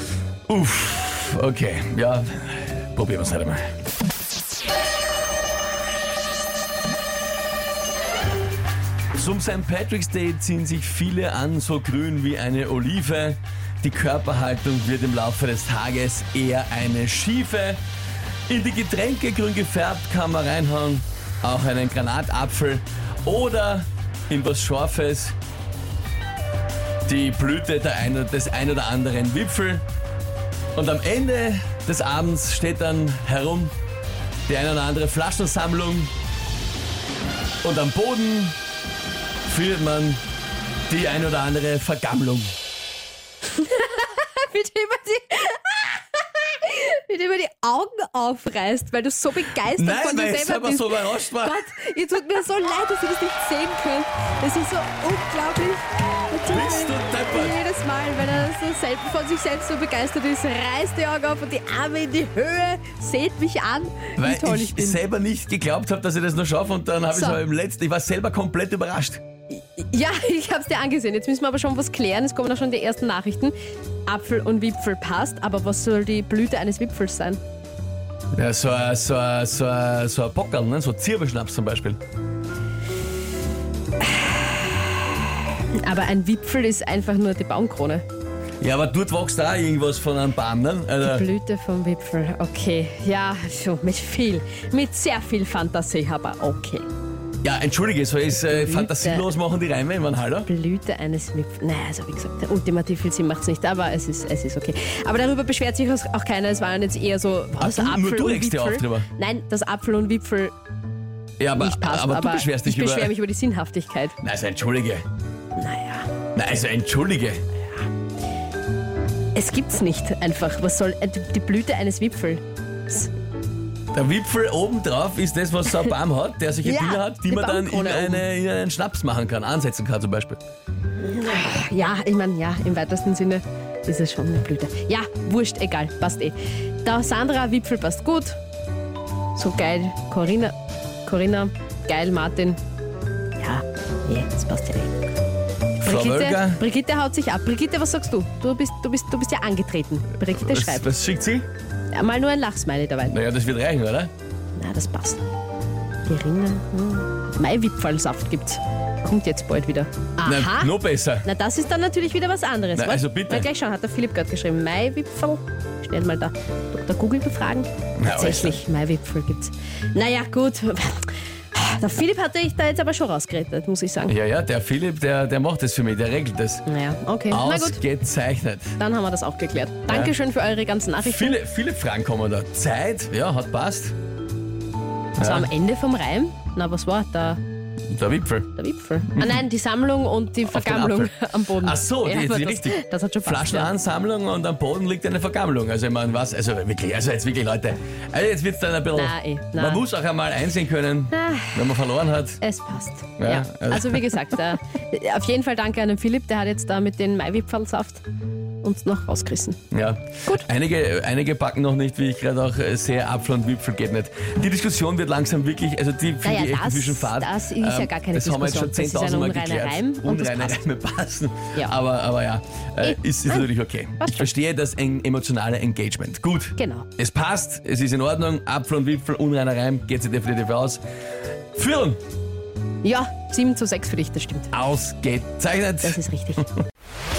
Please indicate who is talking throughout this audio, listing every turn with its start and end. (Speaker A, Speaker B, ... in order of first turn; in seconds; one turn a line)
Speaker A: 0.5-3.7
Speaker A: 9.1-17.8
Speaker A: 18.5-25.4
Speaker A: 27.1-29.8
Speaker A: 30.8-33.7
Speaker A: 34.5-36.1
Speaker A: 37.6-38.6
Speaker A: 39.5-40.2
Speaker A: 40.9-42.5
Speaker B: 43.5-65.0
Speaker A: 49.8-51.7
Speaker A: 56.5-57.6
Speaker A: 64.2-69.2
Speaker B: 67.1-67.4
Speaker B: 69.5-73.5
Speaker B: 74.1-77.4
Speaker A: 78.3-82.0
Speaker B: 84.0-88.0
Speaker A: 88.6-91.3
Speaker B: 91.0-96.9
Speaker A: 97.4-100.5
Speaker B: 98.3-99.3
Speaker B: 100.4-110.5
Speaker A: 107.6-109.1
Speaker A: 111.4-113.1
Speaker B: 111.6-114.2
Speaker A: 114.2-115.0
Speaker B: 115.6-116.1
Speaker A: 116.3-117.4
Speaker B: 119.3-123.1
Speaker A: 123.9-130.4
Speaker B: 126.6-128.3
Speaker B: 131.0-138.4
Speaker B: 139.3-142.6
Speaker B: 143.4-144.9
Speaker A: 145.8-146.6
Speaker B: 145.8-150.9
Speaker A: 150.2-151.5
Speaker B: 151.9-153.2
Speaker A: 153.1-154.1
Speaker B: 154.6-155.2
Speaker B: 156.1-174.2
Speaker A: 160.2-161.3
Speaker A: 162.7-163.5
Speaker A: 168.0-168.6
Speaker A: 174.1-176.7
Speaker B: 176.7-177.8
Speaker A: 177.3-178.8
Speaker B: 178.8-181.4
Speaker A: 179.9-180.2
Speaker A: 181.0-183.9
Speaker A: 185.2-185.5
Speaker B: 185.2-187.4
Speaker A: 187.9-188.5
Speaker B: 188.6-193.7
Speaker A: 190.5-202.4
Speaker B: 198.9-199.8
Speaker B: 201.1-201.6
Speaker B: 202.4-208.0
Speaker A: 203.2-204.2
Speaker B: 208.6-209.6
Speaker A: 209.7-230.8
Speaker B: 216.2-220.6
Speaker B: 222.8-223.5
Speaker B: 224.0-224.3
Speaker B: 226.6-226.9
Speaker A: 231.6-232.0
Speaker B: 232.8-234.5
Speaker A: 234.5-236.5
Speaker B: 235.8-236.5